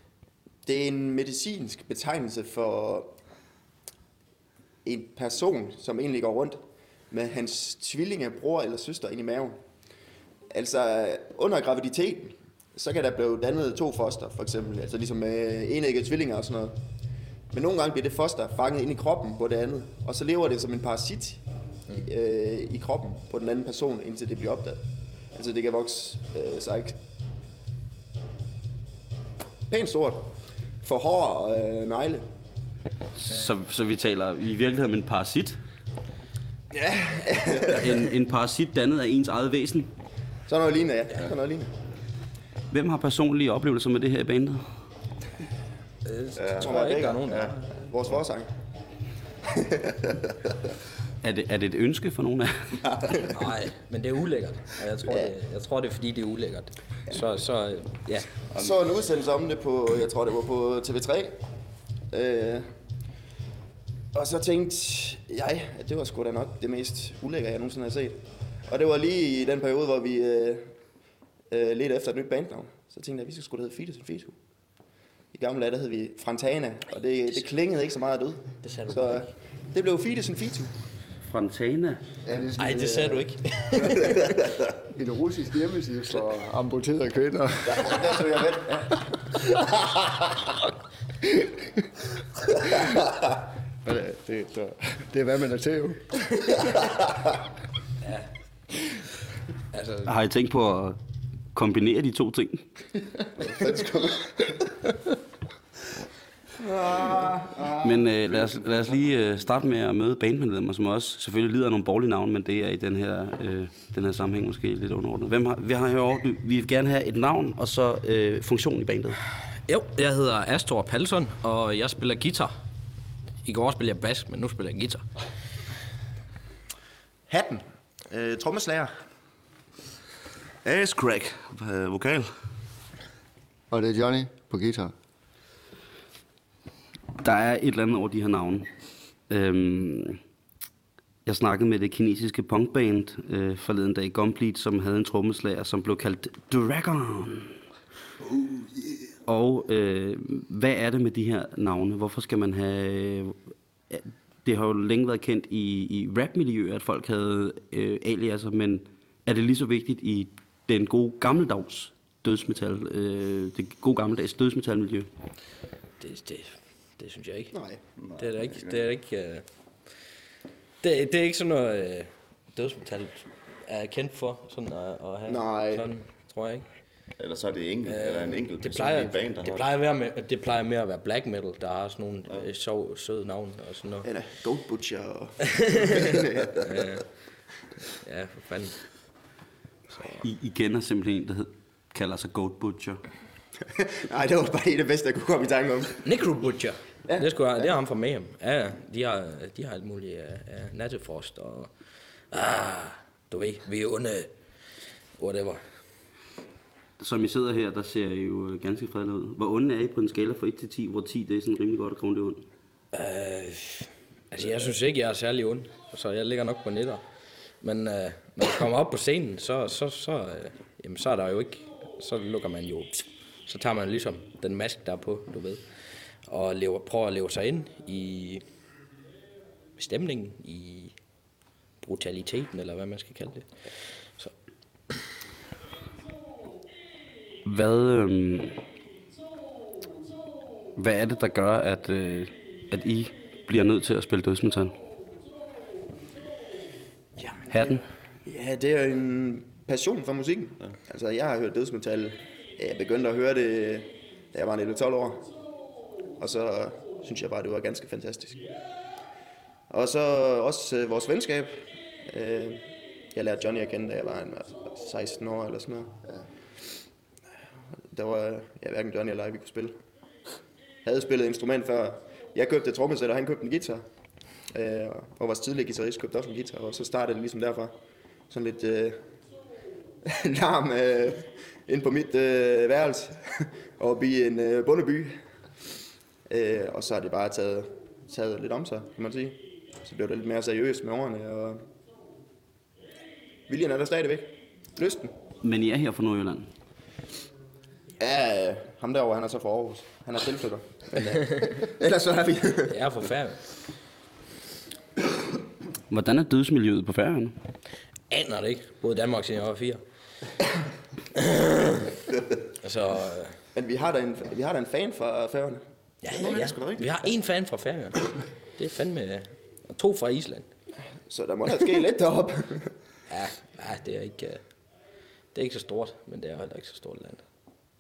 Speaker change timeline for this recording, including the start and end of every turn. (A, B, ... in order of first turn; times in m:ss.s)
0:00.6-0:03.2 A
0:04.8-0:09.6 A
0:10.5-0:16.8 A
0:17.5-0:21.4 A
0:21.9-0:27.0 A
0:29.7-0:32.3 A
0:33.2-0:35.6 B
0:36.7-0:37.8 A
0:37.6-0:39.9 B
0:40.5-0:41.7 A
0:42.7-0:44.7 B
0:46.0-0:47.6 C
0:46.4-0:47.6 D
0:46.6-0:48.5 A
0:51.2-0:53.0 B
0:53.3-0:58.3 C
0:58.5-1:01.4 A
1:02.1-1:02.7 A
1:04.1-1:10.7 A
1:11.5-1:14.4 A
1:15.3-1:20.7 A
1:18.6-1:19.3 C
1:21.2-1:22.0 B
1:22.2-1:23.3 E
1:22.6-1:24.1 C
1:24.9-1:28.3 E
1:27.8-1:28.9 A
1:33.8-1:36.2 E
1:39.7-1:40.1 C
1:40.0-1:41.0 B
1:41.5-1:42.7 B
1:43.4-1:44.3 E
1:46.6-1:47.7 A
1:47.8-1:59.2 B
1:59.7-2:02.5 C
2:03.4-2:05.1 C
2:07.3-2:09.0 A
2:10.6-2:12.4 D
2:13.7-2:14.9 E
2:17.2-2:18.7 B
2:19.3-2:20.2 B
2:21.2-2:27.6 B
2:29.3-2:45.1 B
2:46.0-2:47.6 C
2:47.5-2:47.8 A
2:48.0-2:48.8 D
2:48.2-2:50.1 C
2:50.8-2:56.7 C
2:55.3-2:55.9 A
2:57.2-2:59.7 D
2:57.9-3:04.1 C
3:04.0-3:06.6 A
3:06.6-3:07.1 C
3:07.9-3:09.0 C
3:09.9-3:10.2 C
3:10.2-3:13.0 B
3:13.7-3:16.0 A
3:16.0-3:24.4 C
3:17.0-3:17.7 A
3:25.1-3:25.8 C
3:27.0-3:32.5 B
3:32.9-3:48.5 C
3:49.8-3:51.2 C
3:51.8-3:54.4 C
3:57.4-3:58.6 B
4:00.8-4:04.8 B
4:07.5-4:07.8 B
4:08.2-4:15.3 A
4:16.2-4:18.5 A
4:19.7-4:25.9 A
4:27.9-4:29.7 A
4:30.8-4:33.9 A
4:34.5-4:37.8 A
4:38.3-4:39.0 A
4:40.0-4:45.2 A
4:46.3-4:51.6 A
4:53.5-4:55.2 A
4:55.4-4:56.5 B
4:58.0-5:02.8 A
5:01.0-5:01.6 C
5:02.7-5:03.5 C
5:05.9-5:07.4 B
5:08.1-5:09.8 C
5:11.2-5:11.8 C
5:12.6-5:13.4 C
5:13.5-5:15.6 A
5:16.0-5:20.5 C
5:16.1-5:17.1 D
5:21.1-5:22.8 A
5:23.1-5:24.7 C
5:25.3-5:27.3 C